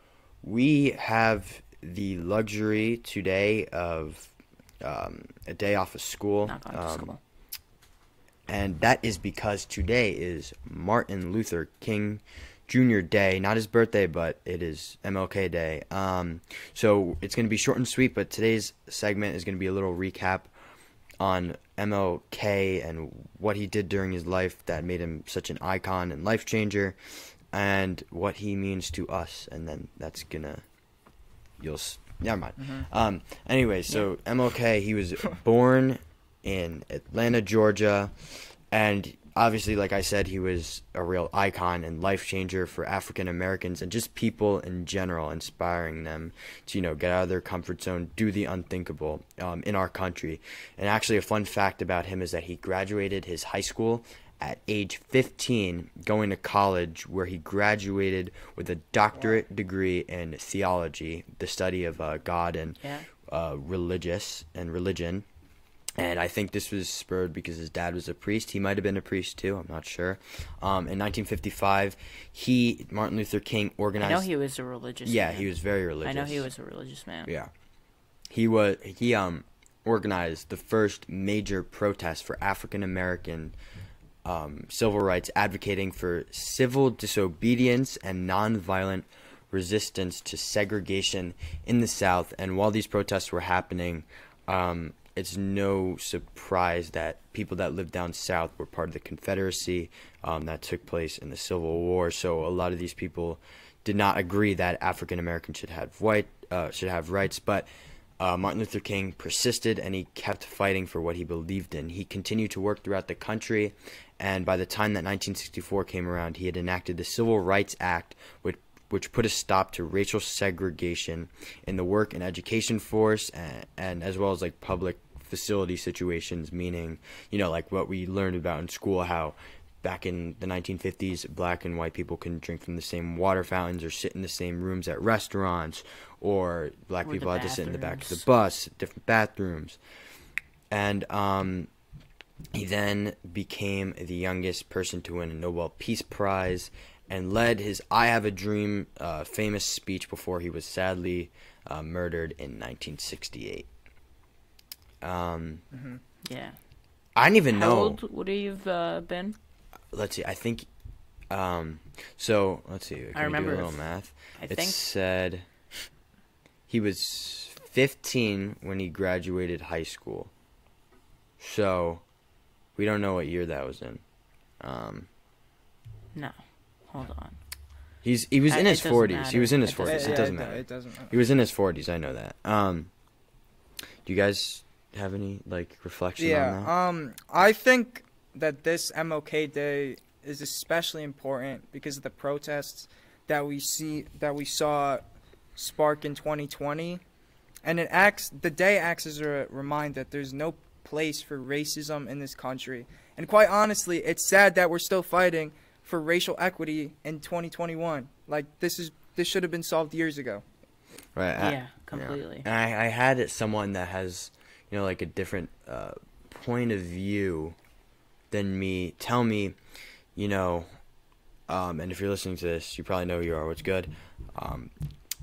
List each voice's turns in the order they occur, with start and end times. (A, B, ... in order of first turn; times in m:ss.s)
0:00.4-0:07.1 A
0:06.4-0:07.2 B
0:08.5-0:20.5 A
0:21.2-0:27.0 A
0:27.5-0:30.6 A
0:31.6-1:05.2 A
1:06.0-1:14.2 A
1:14.0-1:15.5 B
1:15.0-1:16.4 A
1:16.0-1:17.3 B
1:18.3-1:23.6 A
1:24.2-1:47.7 A
1:48.2-2:19.8 A
2:17.0-2:18.2 B
2:20.7-2:21.7 A
2:22.5-2:33.7 A
2:35.0-2:35.6 A
2:35.7-2:36.0 C
2:36.2-2:36.6 B
2:37.2-2:38.0 A
2:37.5-2:39.4 B
2:39.9-2:40.7 A
2:41.3-2:45.4 A
2:43.1-2:43.8 B
2:44.4-2:44.8 B
2:46.7-2:50.3 A
2:51.4-2:52.0 A
2:52.8-2:54.0 A
2:54.6-2:55.1 A
2:56.9-2:57.4 B
2:58.0-3:02.9 A
2:58.5-3:00.4 B
2:59.8-3:01.1 C
3:04.0-3:06.7 A
3:06.2-3:15.0 C
3:15.6-3:17.0 C
3:17.6-3:30.4 C
3:31.2-3:37.6 A
3:31.4-3:32.4 B
3:38.3-3:39.6 A
3:40.1-3:40.7 A
3:41.5-3:44.7 A